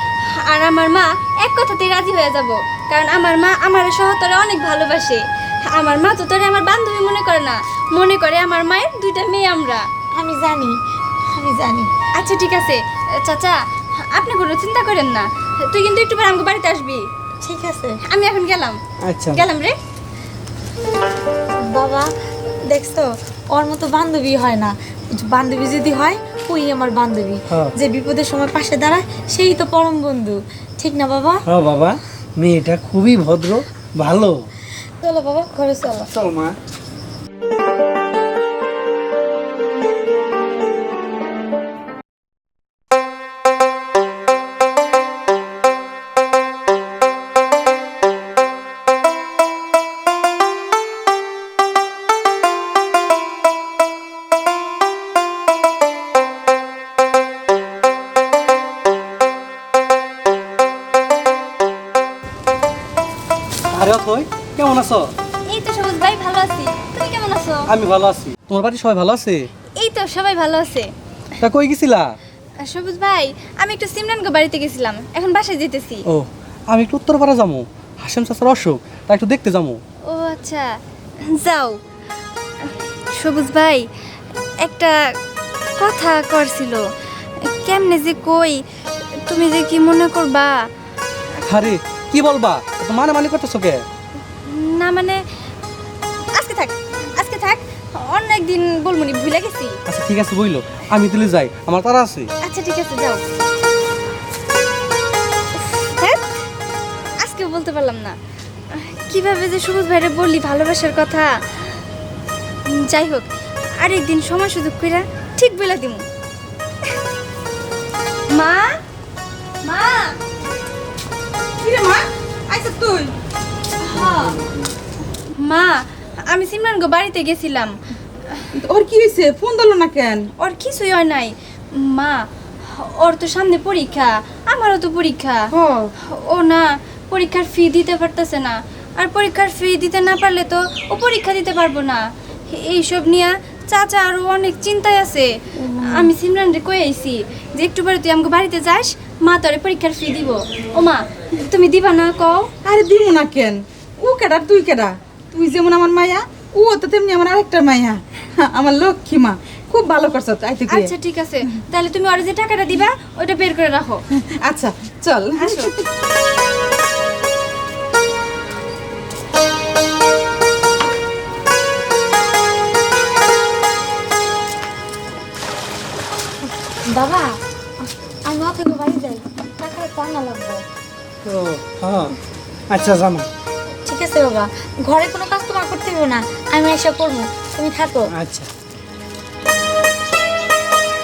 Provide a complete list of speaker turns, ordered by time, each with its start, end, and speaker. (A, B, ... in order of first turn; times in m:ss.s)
0:00.3-0:09.8 A
0:10.2-0:10.8 B
0:11.3-0:11.9 B
0:12.2-0:17.0 A
0:17.4-0:18.0 B
0:18.0-0:18.8 A
0:19.1-0:19.4 C
0:19.3-0:19.7 A
0:21.7-0:22.1 B
0:22.7-0:31.4 B
0:31.5-0:34.4 C
0:35.0-0:36.1 B
0:36.1-0:36.6 C
1:03.7-1:05.1 D
1:05.5-1:07.7 A
1:07.7-1:09.4 D
1:09.8-1:10.9 A
1:11.4-1:12.1 D
1:12.6-1:16.0 A
1:16.1-1:19.8 D
1:20.1-1:20.7 A
1:21.3-1:21.8 A
1:22.6-1:23.8 A
1:24.6-1:24.9 A
1:25.8-1:26.8 A
1:27.5-1:28.6 A
1:29.3-1:30.5 A
1:31.5-1:33.8 D
1:34.4-1:35.2 A
1:36.3-1:39.8 A
1:39.9-1:42.3 D
1:42.4-1:43.2 A
1:45.6-1:46.3 A
1:47.2-1:48.2 A
1:48.7-1:51.6 A
1:52.7-1:56.0 A
1:58.3-1:58.7 A
1:59.6-2:00.2 A
2:01.6-2:03.1 E
2:03.8-2:04.4 A
2:05.3-2:07.7 A
2:08.5-2:10.3 E
2:10.4-2:15.4 A
2:15.5-2:15.9 E
2:16.0-2:32.5 A
2:25.8-2:26.1 E
2:32.6-2:40.9 E
2:40.7-2:44.0 A
2:44.1-2:45.8 E
2:45.4-2:45.7 A
2:56.9-3:00.6 B
3:01.2-3:02.2 C
3:02.7-3:03.3 C
3:03.8-3:08.1 B
3:08.1-3:08.5 C